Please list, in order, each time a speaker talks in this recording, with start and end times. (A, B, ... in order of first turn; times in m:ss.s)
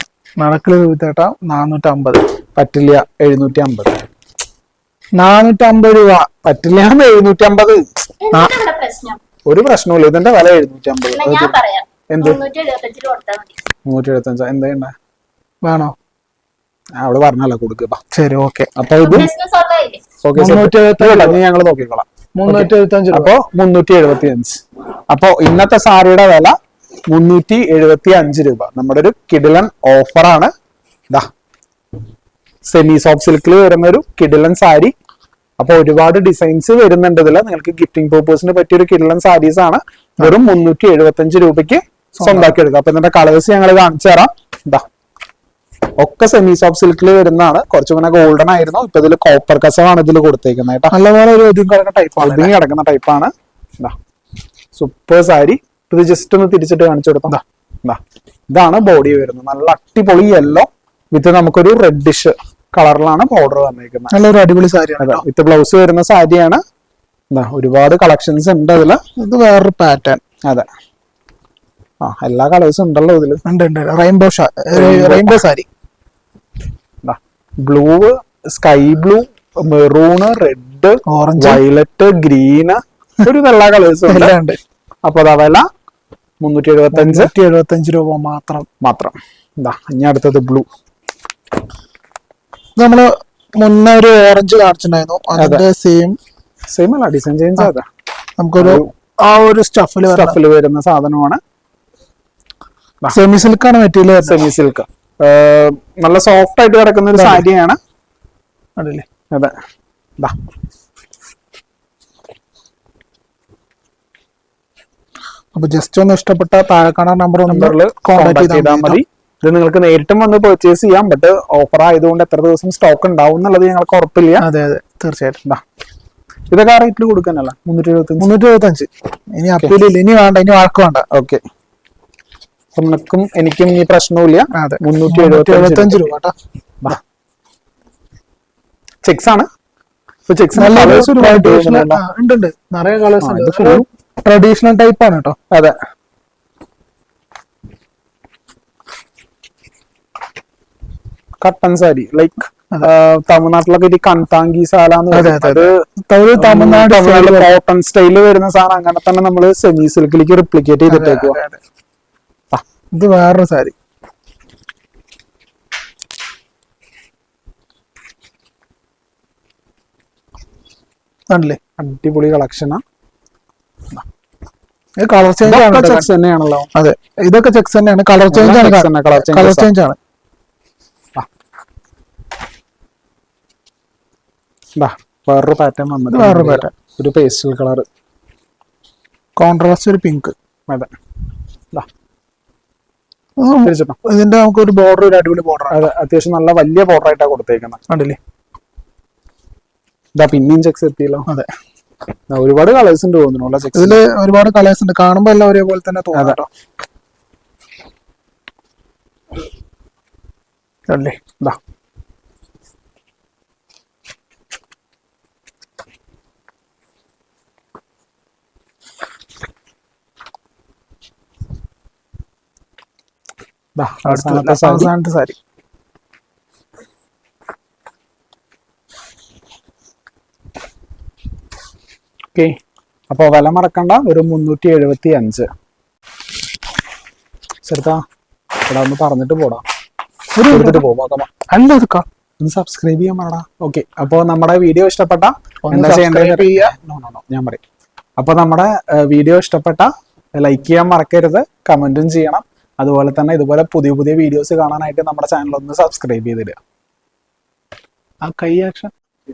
0:00.4-0:02.2 A
0:02.6-0:04.0 B
0:05.2-0:06.3 A
0:06.4-0:07.8 B
0:08.2-0:09.2 C
0:09.5-0:11.6 B
0:11.1-0:13.6 C
0:12.1-0:12.4 B
0:13.8-0:14.9 B
0:15.6-0:15.9 A
0:17.0-0:18.0 B
0:18.1-0:18.7 A
0:18.8-0:19.3 B
0:19.0-0:20.0 C
0:20.2-0:26.5 B
0:20.3-0:21.4 A
0:22.4-0:23.3 A
0:27.1-0:30.5 B
0:32.7-0:34.9 B
0:35.6-0:44.8 B
0:42.2-0:42.5 A
0:46.0-0:50.9 B
0:50.9-0:52.5 A
0:52.2-0:53.9 B
0:54.7-1:04.1 B
1:04.1-1:05.2 A
1:05.0-1:06.6 B
1:07.3-1:09.0 B
1:09.2-1:10.2 A
1:12.0-1:13.4 B
1:13.4-1:15.7 A
1:14.7-1:15.4 B
1:17.0-1:24.3 B
1:21.1-1:21.6 A
1:24.1-1:24.6 A
1:25.0-1:25.6 B
1:26.4-1:27.3 B
1:26.9-1:28.6 A
1:28.8-1:30.7 B
1:32.8-1:36.2 A
1:35.4-1:35.6 B
1:36.7-1:37.8 B
1:38.4-1:40.4 A
1:38.6-1:38.9 B
1:40.1-1:41.4 B
1:43.1-1:44.4 A
1:44.2-1:47.8 B
1:47.1-1:47.4 A
1:48.8-1:49.0 A
1:55.5-1:59.0 A
1:57.5-2:04.4 B
2:04.4-2:05.4 A
2:06.5-2:08.3 B
2:08.2-2:11.0 A
2:11.1-2:11.4 B
2:12.7-2:16.1 B
2:14.5-2:16.3 A
2:19.0-2:19.5 B
2:20.3-2:22.0 B
2:20.5-2:25.4 A
2:23.2-2:23.8 B
2:25.5-2:25.8 B
2:31.4-2:35.7 B
2:35.1-2:37.5 A
2:36.4-2:41.4 B
2:40.9-2:41.6 A
2:42.9-2:43.7 A
2:51.3-2:51.6 A
2:51.8-2:52.8 B
2:55.0-2:56.1 A
2:55.4-2:56.7 B
2:56.7-3:00.0 A
2:58.3-2:59.7 B
3:04.8-3:07.8 B
3:06.1-3:06.7 A
3:09.4-3:10.3 A
3:13.4-3:15.8 A
3:13.6-3:14.0 B
3:15.7-3:17.8 B
3:17.9-3:18.2 A
3:20.2-3:21.2 B
3:22.3-3:24.0 B
3:23.7-3:26.5 A
3:26.1-3:26.4 B
3:30.9-3:31.2 A
3:43.8-3:44.9 B
3:44.0-3:45.4 A
3:53.1-3:55.5 B
3:57.6-3:58.0 B
3:58.6-3:59.6 B
4:00.4-4:00.8 A
4:00.5-4:01.3 B
4:01.5-4:02.0 A
4:02.4-4:07.6 B
4:05.7-4:06.7 A
4:08.2-4:16.6 B
4:18.2-4:18.9 A